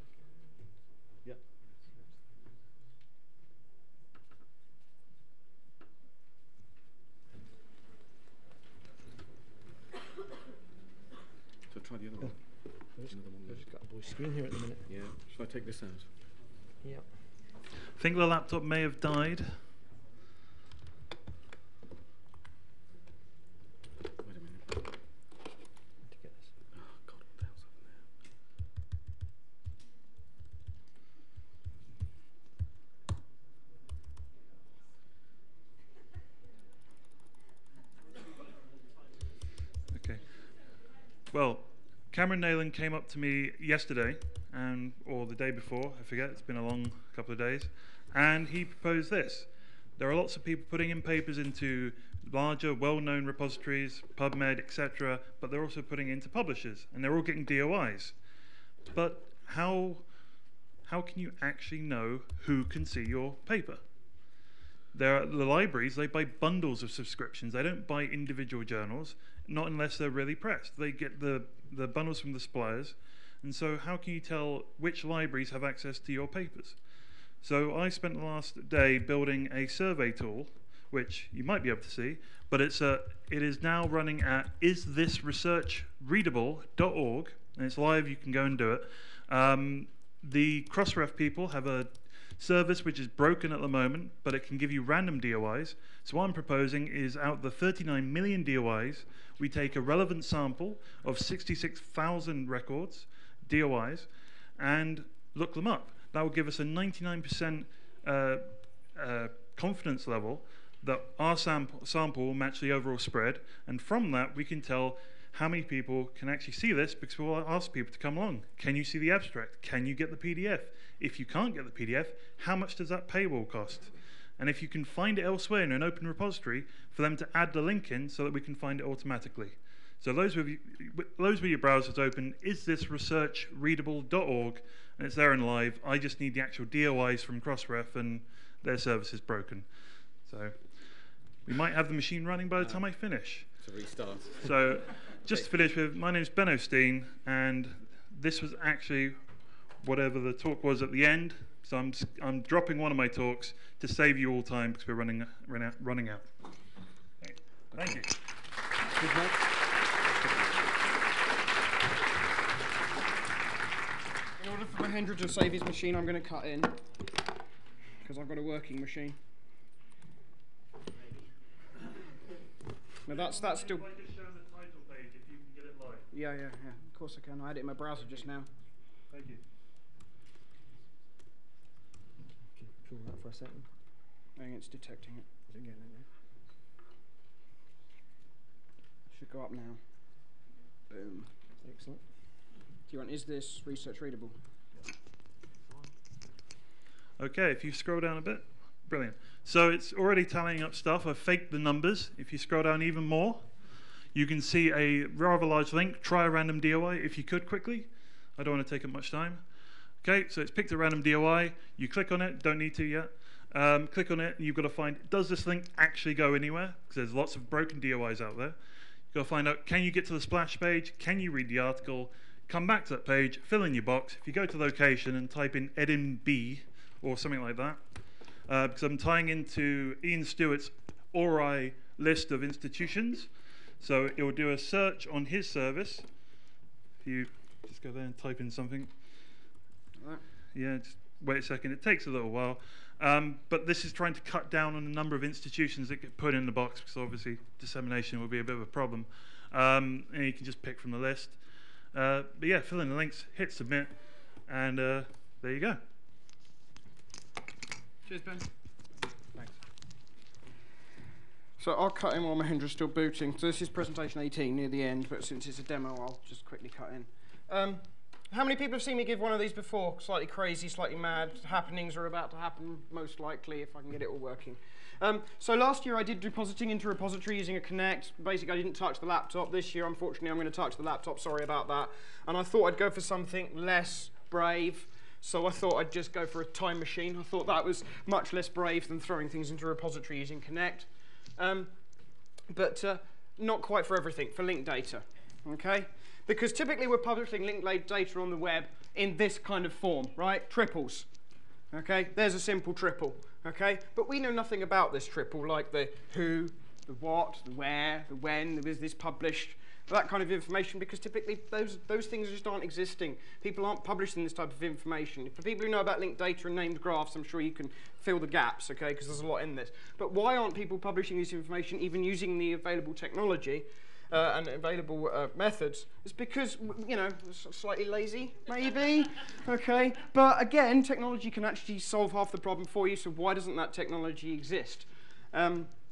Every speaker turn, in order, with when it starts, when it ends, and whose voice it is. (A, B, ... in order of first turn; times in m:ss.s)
0:11.7-0:13.7 A
0:13.0-0:14.8 B
0:14.8-0:16.1 A
0:18.0-0:19.6 C
0:24.2-0:24.8 A
0:26.1-0:26.4 B
0:26.7-0:28.0 A
0:39.9-0:40.4 C
0:41.3-0:58.2 C
0:58.9-1:00.1 C
1:00.8-1:03.8 C
1:04.9-1:16.8 C
1:17.4-2:19.7 C
2:20.2-2:20.6 C
2:21.4-2:23.6 C
2:22.6-2:22.8 A
2:23.6-2:25.5 A
2:24.4-2:29.2 C
2:29.8-2:36.3 C
2:37.2-2:38.1 C
2:39.0-2:39.5 A
2:40.1-2:40.7 A
2:44.4-2:46.8 D
2:48.0-2:49.2 D
2:53.1-2:53.9 D
2:53.1-2:56.0 C
2:56.1-2:58.5 D
2:59.1-2:59.4 C
3:02.6-3:03.6 B
3:04.4-3:06.0 D
3:09.1-3:09.8 D
3:10.9-3:11.3 D
3:11.6-3:12.0 B
3:12.9-3:14.4 D
3:17.2-3:23.6 C
3:24.1-3:29.4 C
3:30.0-3:38.6 C
3:39.1-3:47.8 C
3:48.4-3:56.1 C
3:57.0-3:58.9 C
4:00.5-4:11.4 C
4:11.9-4:15.8 C
4:18.1-4:18.4 D
4:21.6-4:51.7 D
4:52.5-5:01.1 D
5:01.7-5:35.7 D